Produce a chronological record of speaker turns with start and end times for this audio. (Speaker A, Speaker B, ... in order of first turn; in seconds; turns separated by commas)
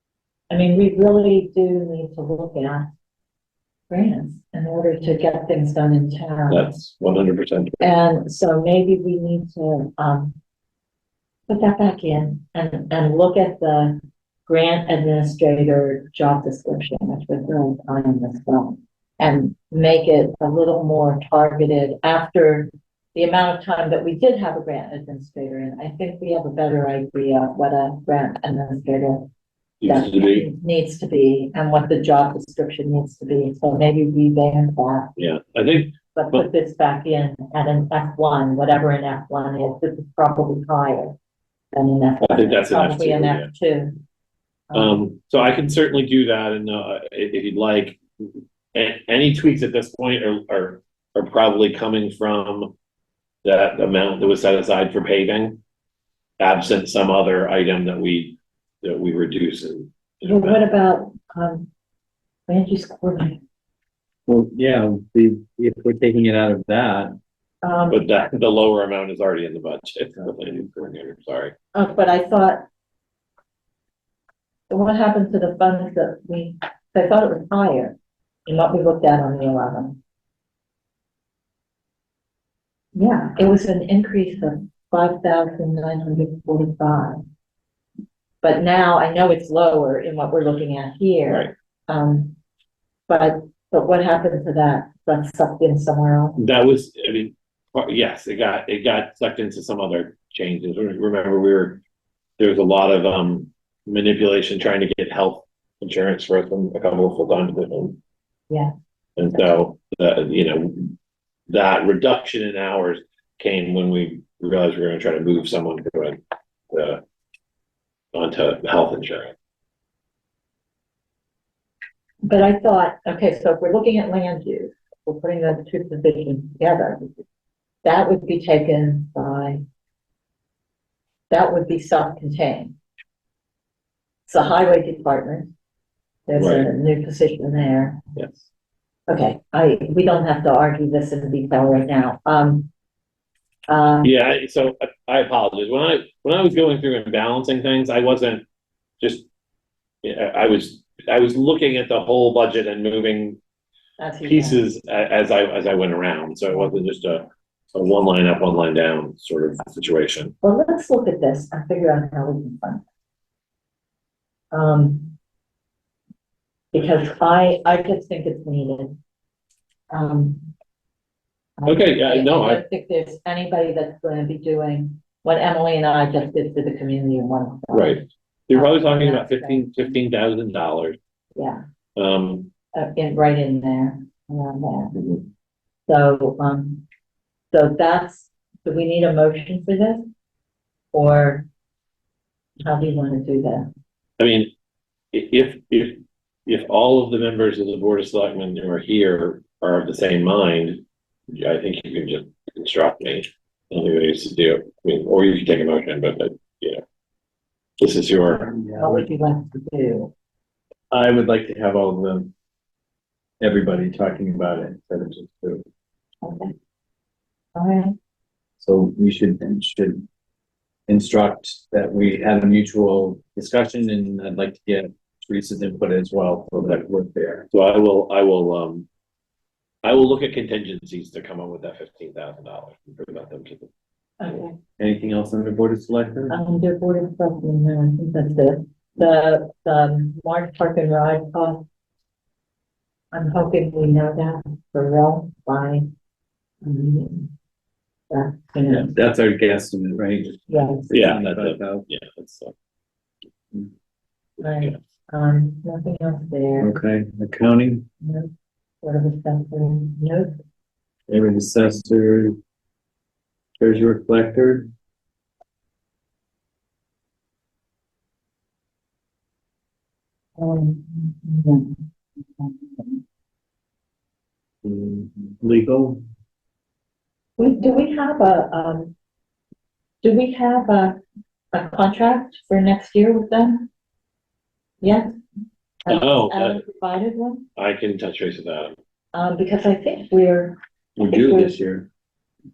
Speaker A: 0.5-2.9, Speaker A: 3.9-6.7, Speaker B: 6.5-7.8, Speaker A: 7.8-10.3, Speaker A: 11.5-29.3, Speaker B: 29.8-30.5, Speaker A: 29.9-35.1, Speaker B: 35.2-36.4, Speaker A: 36.1-41.1, Speaker A: 41.7-44.0, Speaker B: 42.2-43.5, Speaker A: 44.7-45.0, Speaker B: 44.7-48.0, Speaker B: 48.7-52.7, Speaker B: 53.4-55.6, Speaker B: 56.4-60.6, Speaker A: 60.2-61.7, Speaker A: 62.5-63.4, Speaker C: 64.3-67.2, Speaker A: 67.6-68.1, Speaker B: 67.9-71.5, Speaker A: 71.7-72.6, Speaker A: 74.7-80.0, Speaker A: 83.0-87.2, Speaker A: 88.4-92.3, Speaker A: 93.1-96.4, Speaker B: 96.4-101.8, Speaker B: 102.4-108.0, Speaker B: 109.2-111.0, Speaker B: 111.5-116.2, Speaker B: 116.7-117.0, Speaker B: 118.1-119.3, Speaker A: 122.2-127.1, Speaker A: 127.8-129.6, Speaker A: 131.3-132.8, Speaker A: 134.3-135.5, Speaker A: 136.3-138.0, Speaker B: 136.4-136.7, Speaker B: 138.1-138.5, Speaker A: 139.1-142.7, Speaker A: 143.7-144.1, Speaker B: 144.0-148.4, Speaker B: 149.0-149.2, Speaker B: 150.0-153.4, Speaker A: 154.0-154.6, Speaker B: 154.2-160.3, Speaker A: 160.4-162.8, Speaker A: 164.5-165.1, Speaker A: 166.7-169.0, Speaker A: 169.9-170.5, Speaker A: 171.6-179.9, Speaker B: 171.7-172.6, Speaker B: 177.7-181.0, Speaker A: 181.3-181.6, Speaker B: 181.9-182.5, Speaker A: 182.7-184.9, Speaker B: 184.9-185.2, Speaker A: 185.9-186.8, Speaker A: 187.5-190.1, Speaker A: 190.9-191.4, Speaker A: 192.6-193.7, Speaker B: 194.2-194.5, Speaker B: 195.1-206.8, Speaker B: 207.8-208.5, Speaker C: 208.6-209.1, Speaker A: 208.7-210.1, Speaker C: 210.9-212.3, Speaker C: 213.4-215.6, Speaker A: 216.2-216.5, Speaker A: 217.6-217.9, Speaker C: 218.6-220.0, Speaker C: 220.9-227.4, Speaker B: 227.5-228.8, Speaker B: 229.8-233.7, Speaker A: 234.2-234.6, Speaker C: 234.8-236.4, Speaker A: 236.3-241.6, Speaker A: 243.1-245.9, Speaker A: 246.6-247.3, Speaker A: 248.1-248.9, Speaker C: 248.7-251.8, Speaker A: 250.5-250.9, Speaker B: 250.9-252.5, Speaker A: 254.4-256.7, Speaker C: 256.6-257.9, Speaker A: 258.0-258.3, Speaker A: 258.8-260.4, Speaker C: 261.1-262.4, Speaker C: 263.6-264.7, Speaker A: 270.4-273.0, Speaker C: 274.6-276.0, Speaker A: 277.4-278.9, Speaker A: 280.0-281.0, Speaker A: 281.5-283.7, Speaker A: 284.8-285.1, Speaker A: 285.8-287.5, Speaker B: 285.9-286.6, Speaker B: 287.6-288.7, Speaker A: 289.1-291.6, Speaker C: 291.0-291.9